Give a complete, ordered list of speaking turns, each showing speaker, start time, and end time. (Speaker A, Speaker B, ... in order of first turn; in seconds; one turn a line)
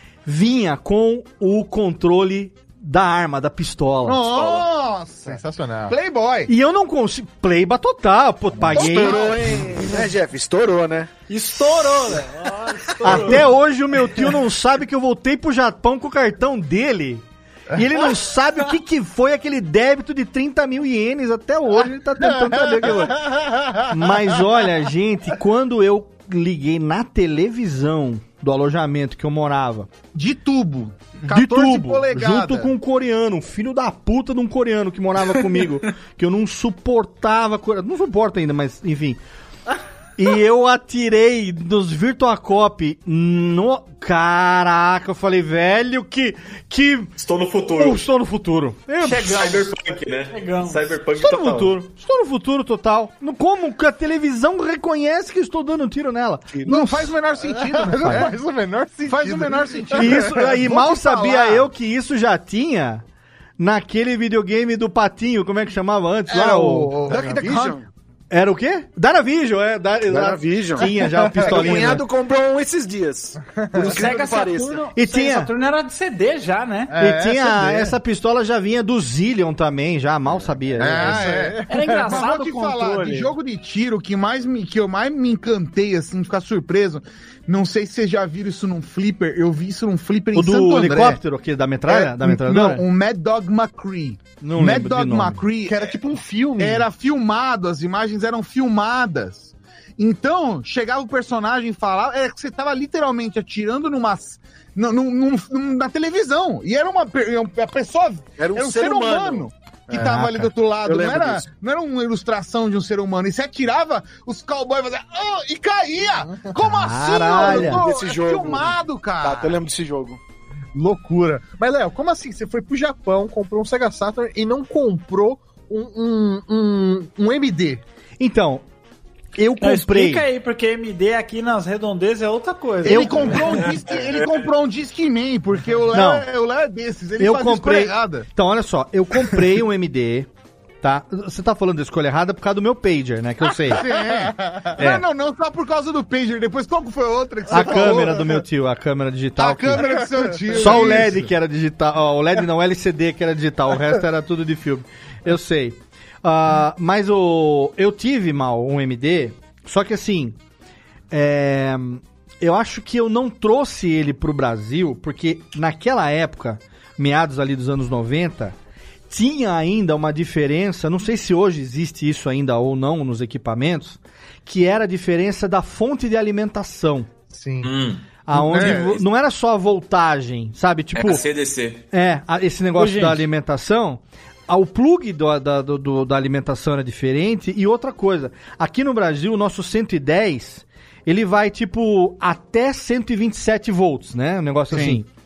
Speaker A: 0.2-4.3
Speaker B: 4.0-6.5
Speaker C: 5.2-6.0
Speaker A: 6.5-9.7
Speaker D: 8.7-11.1
Speaker E: 11.3-13.5
Speaker A: 13.0-29.9
Speaker B: 30.1-32.7
Speaker A: 31.3-39.2
Speaker A: 40.2-47.1
Speaker F: 47.2-48.0
Speaker A: 47.8-49.5
Speaker E: 49.0-49.8
Speaker F: 49.2-51.8
Speaker E: 50.3-50.9
Speaker A: 51.2-57.1
Speaker B: 56.6-58.4
Speaker C: 57.5-60.6
Speaker A: 58.0-58.3
Speaker B: 59.1-61.6
Speaker A: 60.0-63.0
Speaker A: 63.6-67.1
Speaker B: 66.3-67.7
Speaker C: 67.0-67.4
Speaker D: 67.1-67.9
Speaker A: 68.3-72.1
Speaker D: 70.1-74.9
Speaker C: 71.1-71.8
Speaker C: 73.5-73.9
Speaker E: 73.8-76.9
Speaker A: 75.0-75.5
Speaker C: 76.9-77.9
Speaker A: 77.0-81.4
Speaker C: 80.8-82.2
Speaker B: 80.9-91.2
Speaker E: 81.7-83.3
Speaker A: 90.3-92.8
Speaker B: 91.9-96.0
Speaker A: 94.4-95.4
Speaker C: 95.7-96.9
Speaker B: 96.6-119.6
Speaker D: 108.4-109.5
Speaker A: 109.9-110.5
Speaker D: 110.8-111.5
Speaker A: 116.6-117.8
Speaker D: 117.4-120.2
Speaker C: 120.7-127.8
Speaker A: 128.2-128.7
Speaker A: 129.3-130.2
Speaker E: 129.6-133.4
Speaker A: 132.8-133.3
Speaker B: 132.8-138.3
Speaker F: 133.4-134.5
Speaker A: 135.9-136.3
Speaker A: 137.2-140.3
Speaker A: 140.8-143.9
Speaker B: 143.7-148.3
Speaker A: 144.8-145.1
Speaker C: 147.5-148.3
Speaker A: 147.5-150.0
Speaker B: 149.4-151.3
Speaker C: 149.8-150.1
Speaker A: 150.5-160.4
Speaker A: 161.1-168.6
Speaker A: 169.1-177.1
Speaker C: 177.3-177.7
Speaker F: 177.6-178.0
Speaker A: 178.3-181.2
Speaker C: 178.3-179.0
Speaker F: 180.9-181.8
Speaker A: 181.9-195.1
Speaker E: 182.8-183.2
Speaker B: 194.7-195.0